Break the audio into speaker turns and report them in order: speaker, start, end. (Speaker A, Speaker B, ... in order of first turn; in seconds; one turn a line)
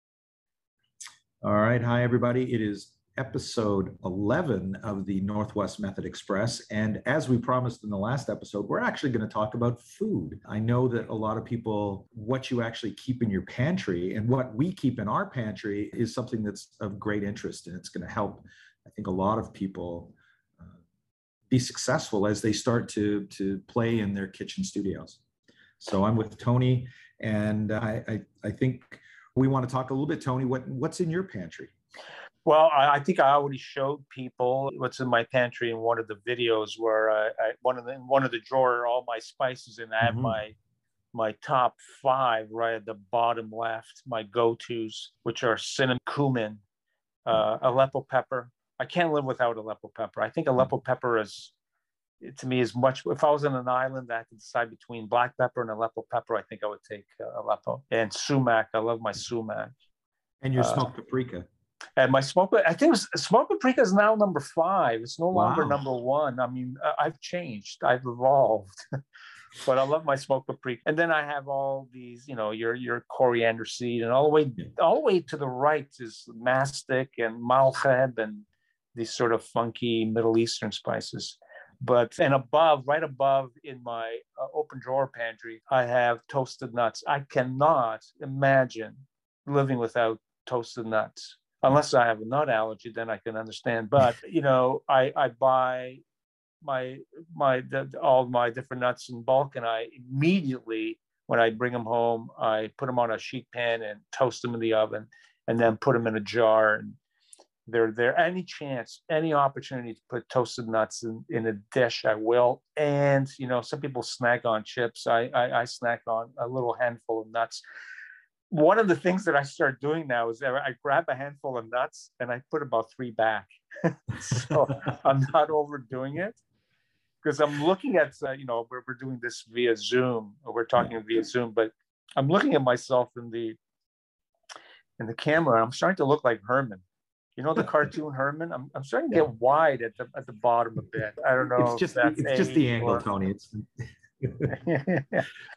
Speaker A: 1.4-20.8
Speaker A: 21.5-25.2
Speaker A: 25.8-31.7
Speaker B: 32.5-40.6
Speaker A: 40.0-40.4
Speaker B: 41.1-46.6
Speaker B: 47.3-51.5
Speaker B: 52.2-59.7
Speaker A: 60.4-61.5
Speaker B: 60.6-60.9
Speaker B: 62.0-68.8
Speaker A: 65.3-65.8
Speaker B: 69.6-96.0
Speaker B: 96.6-107.0
Speaker B: 107.7-117.6
Speaker B: 118.5-126.4
Speaker B: 127.2-133.6
Speaker B: 135.0-136.8
Speaker B: 137.4-143.1
Speaker A: 141.6-144.5
Speaker B: 144.5-145.3